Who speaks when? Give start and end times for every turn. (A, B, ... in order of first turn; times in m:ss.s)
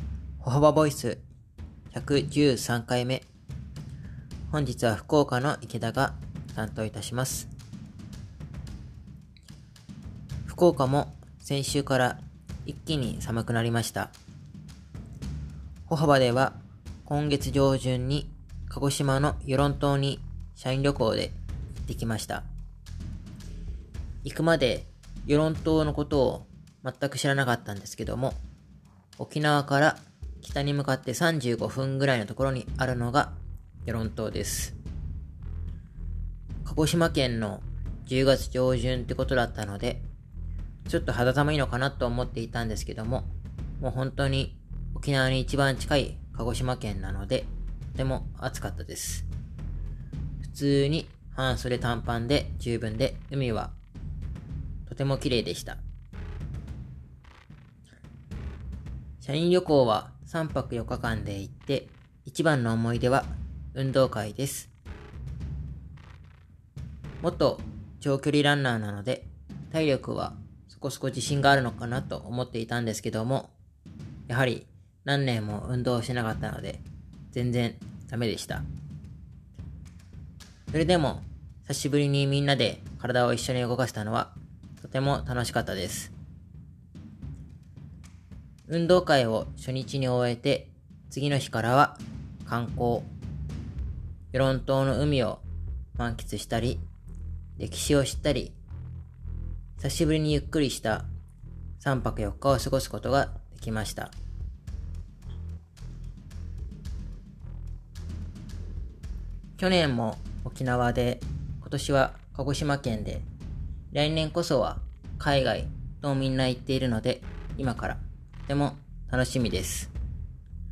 0:00.4-0:01.2 A
0:01.9-0:03.3 A
0:04.5-0:07.5 A
0:10.5-0:14.2 A
0:15.9-0:22.5 A
0:24.2-0:28.4 A
0:29.2-0:34.8 A
0:36.6-0:40.1 A
0:40.9-0:49.3 A
0:50.4-0:53.8 A
0:54.9-0:55.8 A
0:59.2-1:04.7 A
1:07.2-1:13.6 A
1:14.3-1:18.7 A
1:20.7-1:26.1 A
1:28.7-1:33.1 A
1:34.3-1:35.4 A
1:36.0-1:36.8 A
1:37.6-1:38.6 A
1:39.8-1:41.1 A
1:41.8-1:44.2 A
1:49.6-1:53.3 A
1:53.9-1:59.9 A